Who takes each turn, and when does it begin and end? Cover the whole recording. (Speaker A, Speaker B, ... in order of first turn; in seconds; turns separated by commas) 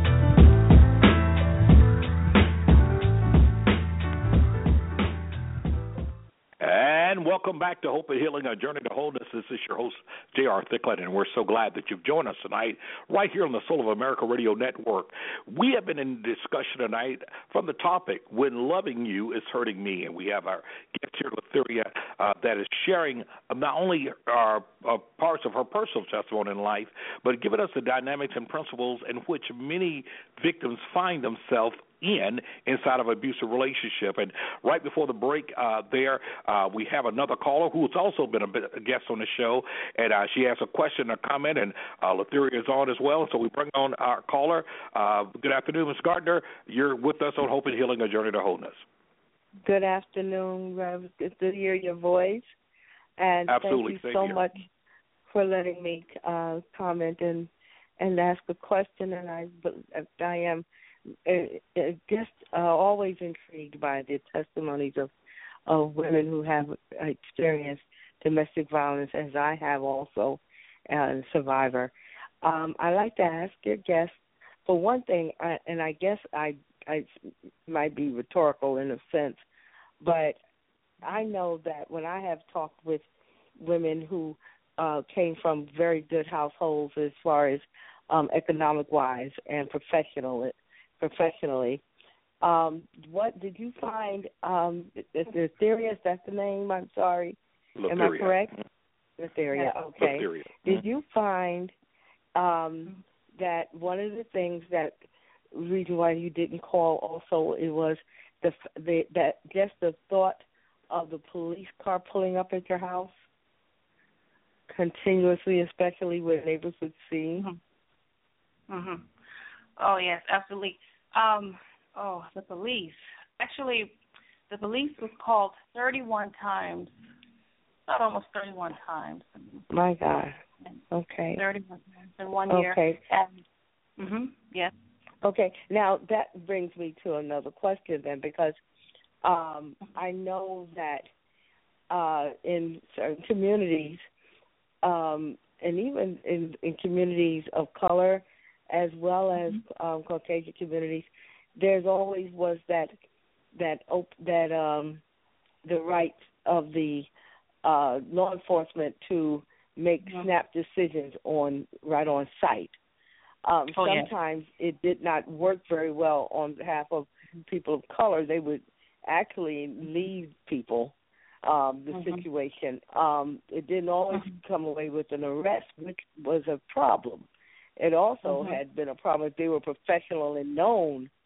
Speaker A: 6.6-48.8, Speaker B: 49.6-52.5, Speaker B: 53.2-54.7, Speaker A: 53.5-54.4, Speaker B: 55.2-60.6, Speaker B: 61.2-65.1, Speaker B: 65.7-71.9, Speaker B: 72.4-77.1, Speaker B: 77.7-79.4, Speaker B: 80.0-80.4, Speaker B: 81.0-91.8, Speaker B: 92.4-97.4, Speaker A: 97.8-98.6, Speaker B: 97.9-98.5, Speaker B: 99.2-101.7, Speaker A: 100.0-100.8, Speaker B: 102.3-105.0, Speaker B: 105.5-113.2, Speaker B: 114.7-117.5, Speaker C: 118.7-119.1, Speaker C: 119.8-124.0, Speaker C: 124.5-126.9, Speaker C: 127.9-129.6, Speaker B: 129.7-130.4, Speaker B: 130.9-131.4, Speaker C: 131.3-133.4, Speaker B: 132.5-133.0, Speaker C: 134.0-134.7, Speaker B: 135.2-138.6, Speaker B: 139.2-141.1, Speaker B: 141.9-144.0, Speaker B: 144.8-152.9, Speaker B: 153.5-155.0, Speaker B: 155.6-157.1, Speaker B: 157.6-162.7, Speaker B: 163.4-177.3, Speaker C: 163.7-164.1, Speaker C: 171.9-172.2, Speaker C: 174.1-174.4, Speaker B: 177.8-181.1, Speaker C: 178.2-178.6